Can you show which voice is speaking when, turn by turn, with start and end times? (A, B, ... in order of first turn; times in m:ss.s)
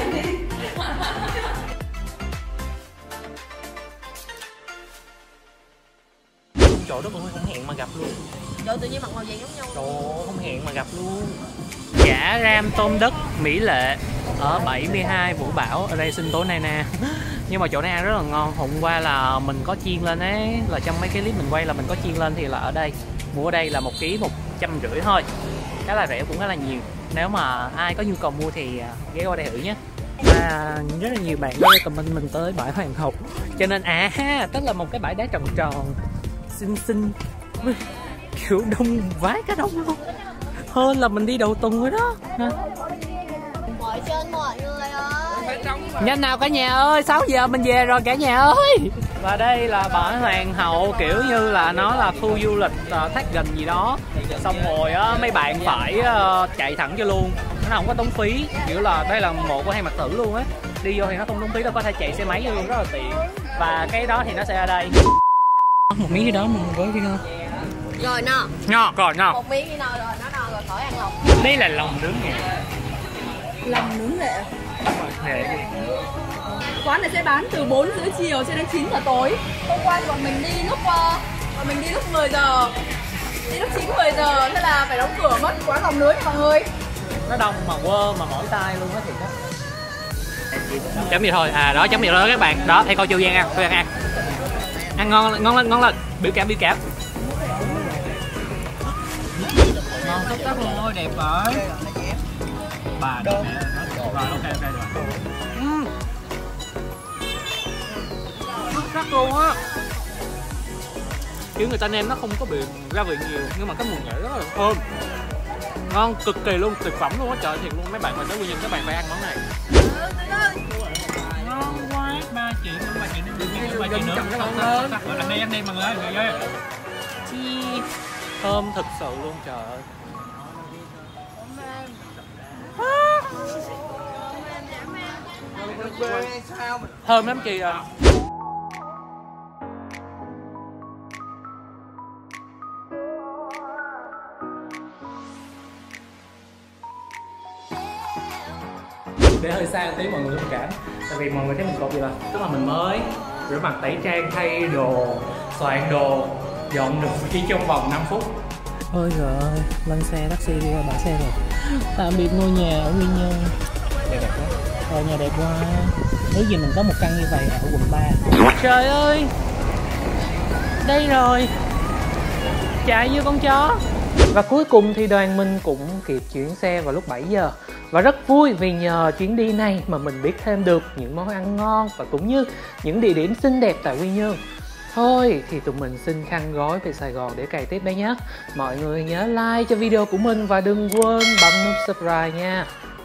0:06.6-0:08.2 A
0:08.6-0:09.6 B
0:09.7-0:11.4 A
0:12.0-0:25.3 A
0:25.9-0:36.0 A
0:36.5-0:37.8 A
0:38.3-0:40.0 A
0:40.7-0:42.6 A
0:43.8-0:45.6 C
0:43.8-0:44.8 B
0:45.9-1:05.0 A
1:05.9-1:07.2 A
1:08.0-1:08.5 C
1:08.0-1:08.3 B
1:08.7-1:09.4 A
1:09.5-1:11.1 B
1:10.1-1:10.9 C
1:11.3-1:12.4 A
1:13.6-1:14.5 B
1:14.9-1:15.7 A
1:16.8-1:22.8 B
1:23.5-1:26.7 B
1:27.3-1:29.3 A
1:30.9-1:33.9 A
1:34.9-1:36.8 A
1:37.5-1:38.0 A
1:39.8-1:41.7 A
1:43.0-1:45.9 A
1:48.7-1:49.6 A
1:51.6-1:54.8 A
1:55.9-1:59.4 A
2:01.2-2:06.4 A
2:07.3-2:07.9 A
2:08.4-2:09.9 A
2:15.6-2:16.4 A
2:17.0-2:17.8 A
2:29.4-2:38.4 A
2:38.9-2:43.6 A
2:44.1-2:49.3 A
2:50.8-2:51.5 A
2:52.8-2:53.8 A
2:54.3-3:04.4 A
3:04.9-3:12.7 A